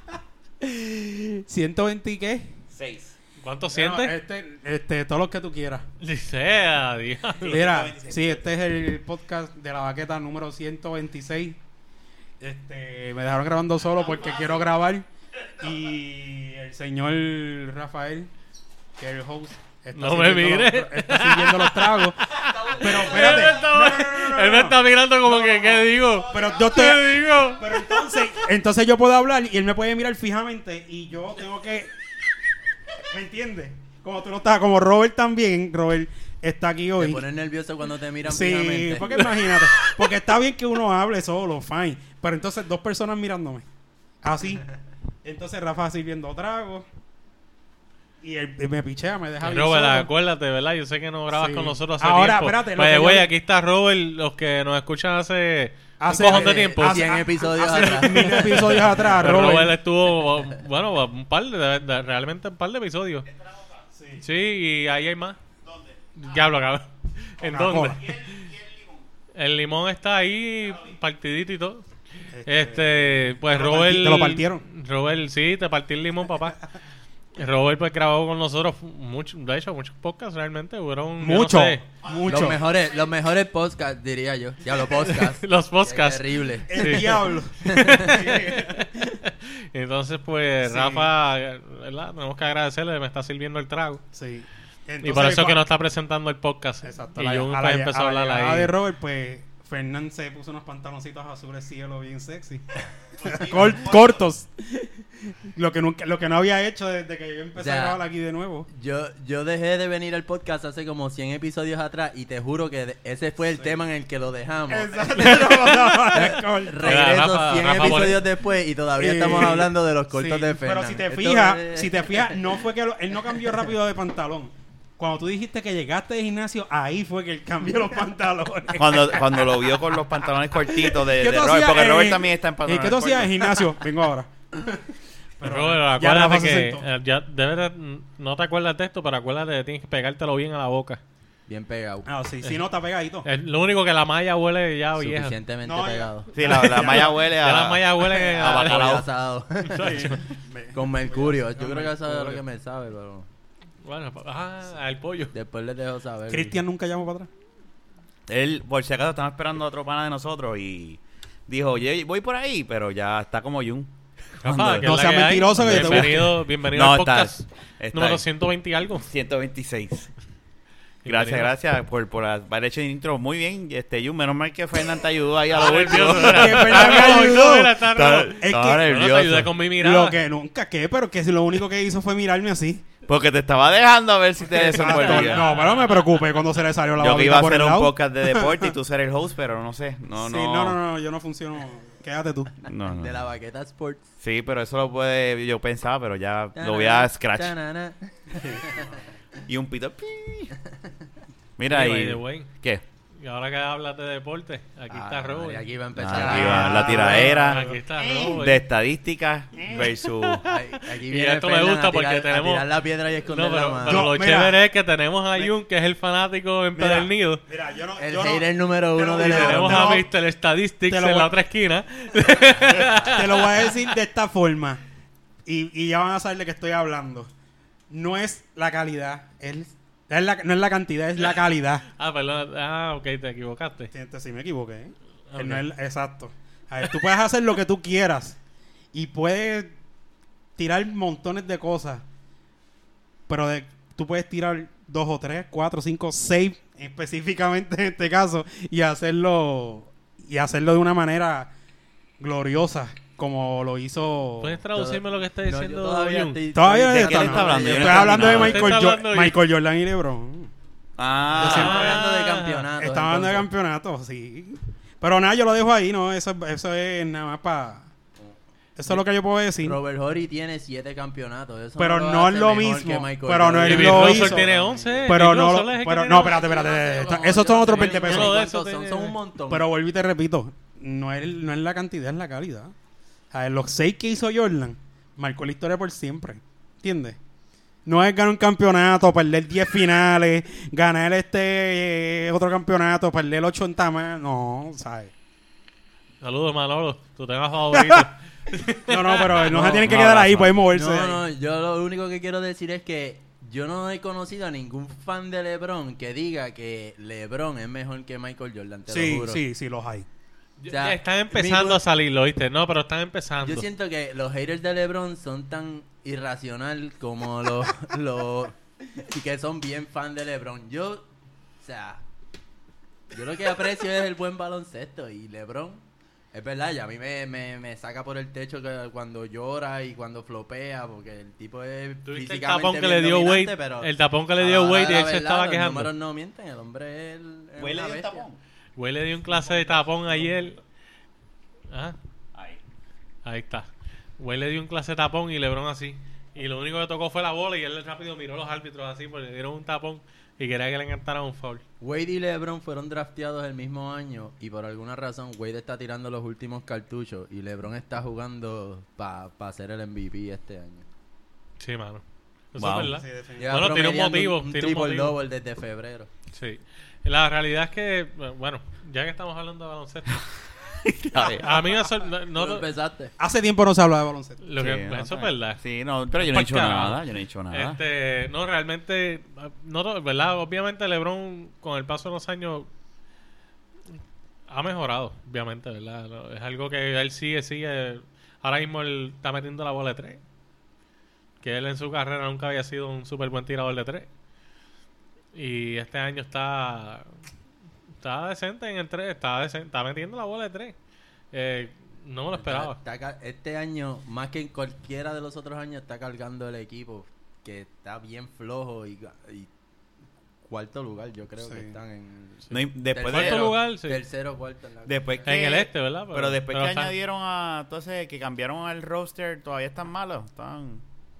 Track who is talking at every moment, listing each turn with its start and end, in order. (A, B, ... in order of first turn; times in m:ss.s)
0:00.6-0:02.6 A
0:02.7-0:03.2 B
0:03.4-0:04.2 C
0:03.7-0:05.8 A
0:06.0-0:07.6 C
0:07.4-0:08.4 B
0:07.5-0:11.6 A
0:12.4-0:15.0 A
0:15.6-0:18.3 A
0:19.0-0:31.9 A
0:19.9-0:28.0 C
0:26.4-0:26.7 B
0:33.1-0:37.2 A
0:37.0-0:39.2 D
0:38.3-0:43.6 A
0:44.2-0:44.7 A
0:45.2-0:46.9 A
0:48.2-0:50.1 A
0:49.4-0:57.3 C
0:51.4-0:53.3 A
0:56.0-0:59.8 A
0:56.2-0:58.8 D
0:58.0-1:03.3 C
1:04.0-1:04.2 A
1:04.2-1:05.4 C
1:05.7-1:06.0 B
1:06.2-1:08.4 C
1:07.4-1:08.0 A
1:08.0-1:09.0 B
1:09.4-1:11.8 C
1:12.4-1:14.6 A
1:12.4-1:16.6 C
1:17.4-1:21.8 C
1:21.2-1:22.6 A
1:22.3-1:28.2 D
1:24.9-1:34.0 C
1:26.7-1:28.9 A
1:30.6-1:31.1 A
1:34.1-1:35.6 A
1:35.0-1:38.7 C
1:36.8-1:44.9 A
1:45.5-1:48.7 A
1:47.6-1:48.0 D
1:48.7-2:02.4 D
1:54.7-1:57.2 A
1:56.8-1:58.2 C
1:59.0-2:09.7 A
2:08.8-2:13.7 B
2:10.9-2:14.8 A
2:15.4-2:16.9 A
2:15.4-2:21.0 C
2:21.5-2:22.1 D
2:22.1-2:23.3 A
2:23.2-2:25.4 C
2:25.0-2:26.3 D
2:25.6-2:27.2 A
2:26.3-2:29.1 B
2:26.9-2:29.0 C
2:28.2-2:30.2 D
2:29.6-2:30.3 C
2:29.8-2:32.4 A
2:30.7-2:33.3 D
2:33.8-2:35.3 C
2:35.3-2:36.6 D
2:36.3-2:37.3 A
2:38.3-2:45.0 B
2:44.4-2:49.1 C
2:44.8-2:46.3 A
2:45.6-2:48.2 B
2:49.0-2:50.1 B
2:51.0-2:51.5 C
2:51.1-2:59.5 B
2:55.5-3:00.2 C
2:56.2-2:57.8 A
2:58.4-2:58.9 A
2:59.8-3:02.9 A
3:03.1-3:05.5 B
3:04.5-3:08.7 A
3:04.8-3:06.2 C
3:07.0-3:10.8 B
3:10.2-3:12.6 A
3:12.7-3:13.2 B
3:12.9-3:14.0 D
3:14.2-3:17.6 B
3:16.6-3:18.9 D
3:18.4-3:18.8 A
3:19.5-3:20.5 B
3:21.6-3:22.8 B
3:21.7-3:22.5 C
3:23.2-3:25.7 C
3:24.9-3:27.5 D
3:26.0-3:30.5 B
3:26.1-3:27.7 A
3:27.5-3:28.6 C
3:30.5-3:34.2 D
3:30.5-3:32.7 C
3:33.3-3:37.4 C
3:33.9-3:34.6 A
3:36.8-3:40.1 A
3:38.0-3:39.9 D
3:39.2-3:43.9 C
3:40.9-3:41.3 A
3:42.9-3:44.8 A
3:45.5-3:47.3 A
3:47.9-3:51.9 A
3:52.0-3:53.9 C
3:53.9-3:58.4 A
3:55.3-3:55.6 C
3:58.9-3:59.8 A
4:00.6-4:02.0 A
4:03.3-4:11.5 A
4:12.2-4:14.6 A
4:14.4-4:16.4 C
4:14.7-4:18.6 D
4:16.5-4:20.5 A
4:16.9-4:18.8 B
4:18.2-4:19.4 C
4:21.0-4:22.0 B
4:21.4-4:22.0 A
4:21.4-4:23.5 D
4:21.4-4:22.7 C
4:22.8-4:27.9 A
4:28.8-4:29.8 A
4:29.6-4:35.1 D
4:31.8-4:38.4 A
4:33.6-4:36.4 C
4:36.2-4:39.7 D
4:37.7-4:39.2 C
4:39.5-4:42.7 A
4:43.3-4:47.2 A
4:47.8-4:55.1 A
4:56.2-4:58.1 C
4:57.7-5:01.2 A
4:58.7-4:59.9 C
4:59.5-4:59.8 D
4:59.8-5:00.5 B
5:00.7-5:09.4 D
5:08.9-5:10.1 A
5:10.6-5:13.7 C
5:10.7-5:11.8 D
5:13.4-5:21.1 D
5:21.6-5:22.0 D
5:23.1-5:38.2 D
5:32.1-5:35.9 C
5:37.6-5:38.4 B
5:38.8-5:40.6 C
5:41.7-5:42.0 C
5:43.2-5:43.7 C
5:44.2-5:51.6 C
5:51.8-6:00.9 D
6:01.6-6:02.0 C
6:02.5-6:05.2 C
6:02.6-6:03.0 B
6:02.9-6:03.7 A
6:03.4-6:06.1 D
6:06.3-6:10.2 C
6:10.7-6:11.6 B
6:11.2-6:12.7 C
6:12.4-6:13.1 D
6:13.2-6:14.4 A
6:14.4-6:15.6 C
6:14.6-6:17.8 B
6:16.2-6:22.7 C
6:24.5-6:30.2 C
6:31.4-6:34.1 C
6:35.3-6:37.1 C
6:38.0-6:40.7 C
6:41.3-6:42.8 C
6:42.3-6:49.5 D
6:50.5-6:55.3 D
6:51.5-6:51.7 A
6:52.5-6:53.6 B
6:52.5-6:54.0 C
6:54.8-7:00.8 B
6:55.3-6:56.9 C